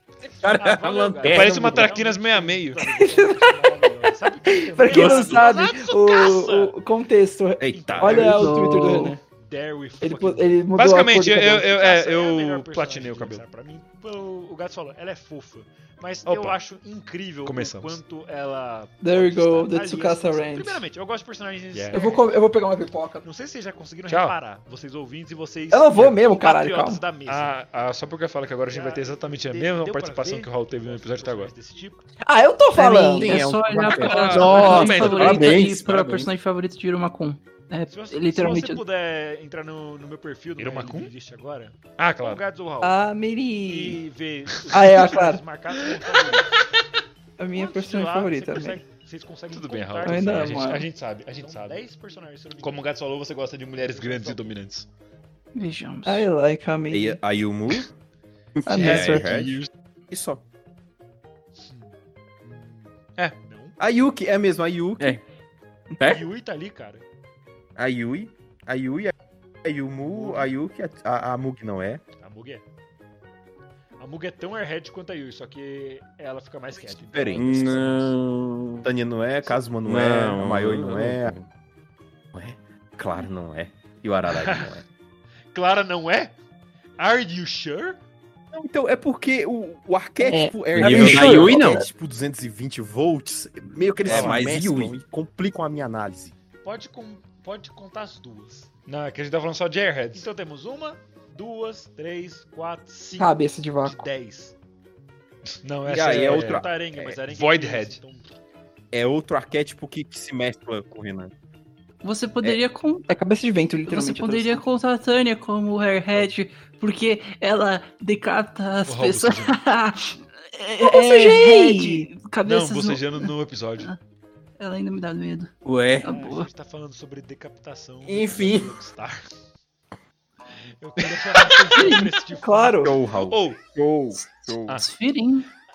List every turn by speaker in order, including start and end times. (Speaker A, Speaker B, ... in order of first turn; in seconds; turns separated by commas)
Speaker A: 0.4-1.9, Speaker B: 0.4-6.7, Speaker C: 1.2-2.8, Speaker D: 2.9-9.2, Speaker C: 4.9-5.4, Speaker E: 7.6-8.5, Speaker B: 7.8-8.4, Speaker F: 8.2-9.1, Speaker B: 9.4-10.5, Speaker D: 10.0-11.7, Speaker C: 10.8-13.4, Speaker B: 11.6-22.2, Speaker C: 16.0-16.6, Speaker C: 17.4-18.0, Speaker D: 19.0-20.8, Speaker C: 20.6-20.9, Speaker C: 21.5-22.2, Speaker D: 21.9-23.2, Speaker B: 23.2-27.6, Speaker C: 24.1-24.4, Speaker D: 25.7-27.0, Speaker C: 25.9-26.2, Speaker C: 27.2-31.5, Speaker B: 28.7-32.0, Speaker D: 32.2-33.4, Speaker F: 32.8-38.8, Speaker A: 33.1-36.3, Speaker C: 34.0-36.0, Speaker B: 37.9-43.0, Speaker C: 40.6-41.1, Speaker C: 42.0-42.4, Speaker D: 42.8-44.0, Speaker B: 43.6-46.5, Speaker C: 44.5-45.1, Speaker D: 44.7-45.4, Speaker C: 45.7-46.6, Speaker D: 47.4-48.8, Speaker B: 47.5-52.9, Speaker C: 49.5-51.9, Speaker D: 50.0-50.9, Speaker C: 52.6-54.9, Speaker B: 53.8-54.6, Speaker F: 55.5-56.3, Speaker D: 56.0-57.2, Speaker E: 56.9-57.9, Speaker E: 58.5-59.6, Speaker D: 58.7-59.4, Speaker C: 58.7-59.7, Speaker E: 60.1-60.4, Speaker B: 61.6-61.9, Speaker B: 62.4-63.8, Speaker E: 63.8-65.2, Speaker A: 66.0-66.2, Speaker B: 66.0-67.0, Speaker E: 67.8-69.1, Speaker E: 69.6-72.0, Speaker B: 70.0-70.5, Speaker B: 72.2-72.6, Speaker B: 74.0-78.1, Speaker E: 77.1-77.6, Speaker A: 77.3-78.9, Speaker E: 78.8-81.4, Speaker A: 79.8-81.4, Speaker E: 82.3-84.8, Speaker B: 84.3-84.7, Speaker B: 85.5-86.3, Speaker B: 87.0-88.0, Speaker E: 88.5-96.3, Speaker D: 90.2-91.9, Speaker A: 90.7-91.8, Speaker A: 94.0-94.9, Speaker B: 96.6-98.7, Speaker C: 98.9-100.2, Speaker B: 100.1-104.5, Speaker D: 103.2-104.1, Speaker C: 105.6-106.7, Speaker B: 105.8-108.3, Speaker E: 105.9-107.2, Speaker C: 107.3-108.0, Speaker E: 108.9-111.3, Speaker F: 112.0-113.2, Speaker D: 113.1-114.7, Speaker F: 113.9-124.0, Speaker C: 118.9-119.5, Speaker D: 120.8-122.1, Speaker C: 122.4-123.9, Speaker F: 124.6-126.5, Speaker A: 125.6-126.1, Speaker B: 126.0-129.2, Speaker A: 128.0-128.7, Speaker B: 130.8-133.6, Speaker D: 131.6-132.9, Speaker E: 132.8-134.8, Speaker F: 134.7-135.5